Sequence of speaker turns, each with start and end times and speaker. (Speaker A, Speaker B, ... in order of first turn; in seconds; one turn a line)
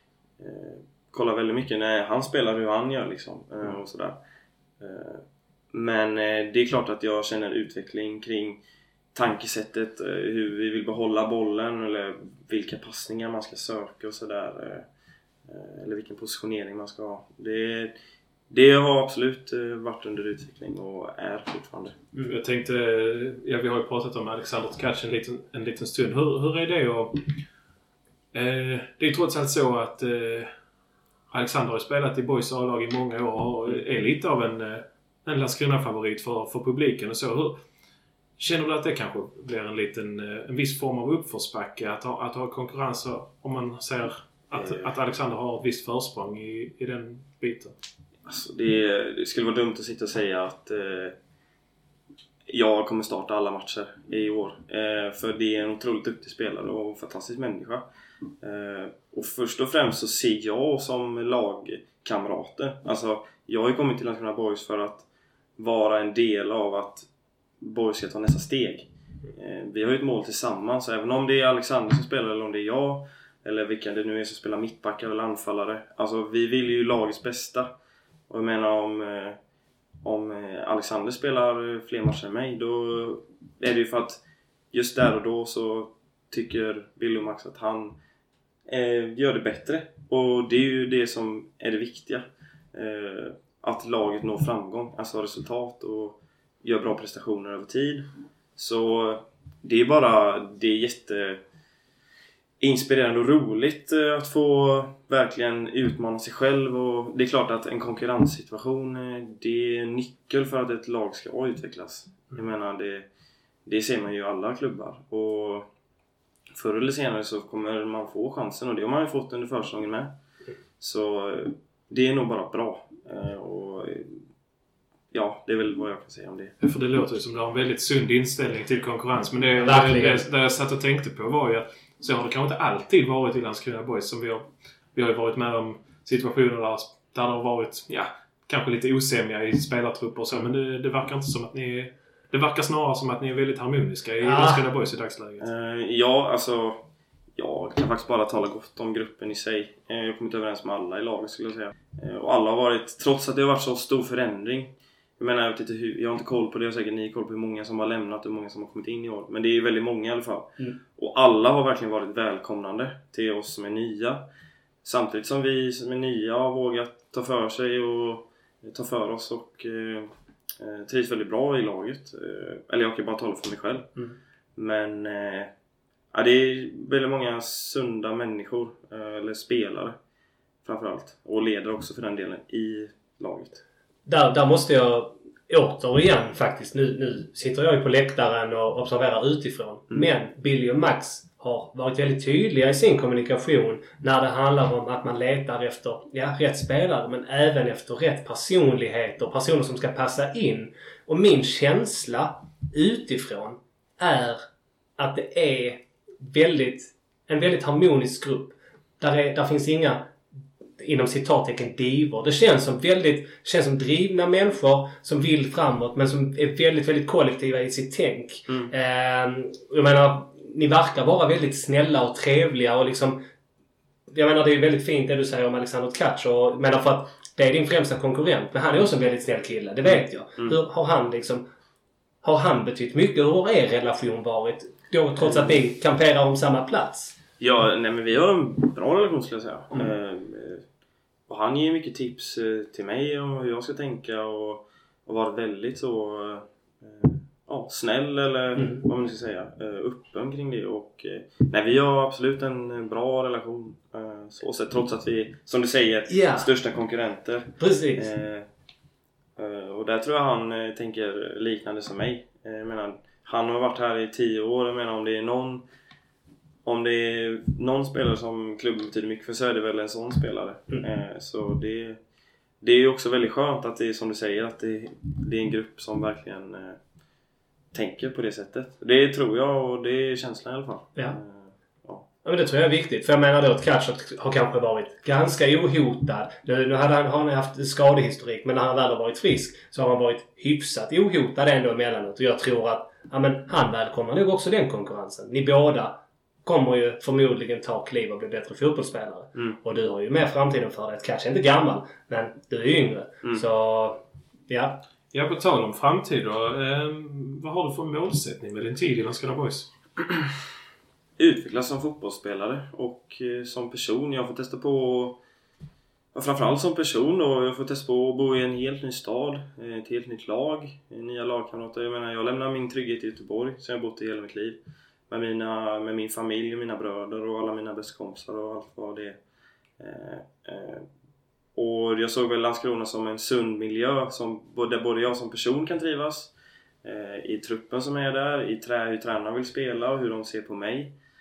Speaker A: 0.4-4.2
Speaker A: 4.8-8.6
Speaker A: 9.1-14.9
Speaker A: 15.4-17.9
Speaker A: 18.5-22.0
Speaker B: 22.3-27.3
Speaker B: 28.3-30.5
Speaker B: 31.3-37.6
Speaker B: 38.4-47.7
Speaker A: 44.5-44.9
Speaker A: 48.2-51.1
Speaker A: 52.5-57.8
Speaker A: 58.4-67.1
Speaker A: 67.6-77.7
Speaker A: 78.3-79.4
Speaker A: 80.0-88.0
Speaker A: 88.7-101.4
Speaker A: 102.6-113.0
Speaker A: 113.6-115.7
Speaker A: 116.5-120.1
Speaker A: 120.8-124.2
Speaker A: 125.1-126.5
Speaker B: 126.6-145.5
Speaker C: 129.6-130.2
Speaker C: 144.2-144.6
Speaker A: 145.4-164.2
Speaker A: 164.8-173.9
Speaker A: 174.6-175.5
Speaker A: 176.1-179.9
Speaker A: 180.6-183.6
Speaker C: 184.1-204.5
Speaker C: 205.0-210.1
Speaker C: 210.8-223.2
Speaker A: 218.5-218.7
Speaker C: 224.1-231.5
Speaker A: 229.8-230.6
Speaker C: 232.2-237.2
Speaker A: 235.2-235.6
Speaker A: 237.4-240.6
Speaker A: 241.3-258.5
Speaker C: 248.6-248.8
Speaker C: 256.1-256.5
Speaker C: 257.6-258.1
Speaker A: 259.4-265.6
Speaker A: 266.6-272.0
Speaker A: 272.6-276.8
Speaker A: 277.7-282.1
Speaker C: 282.2-304.8
Speaker B: 305.1-309.7
Speaker A: 311.2-315.2
Speaker A: 316.1-329.2
Speaker A: 329.8-330.9
Speaker A: 331.5-336.3
Speaker A: 336.8-340.9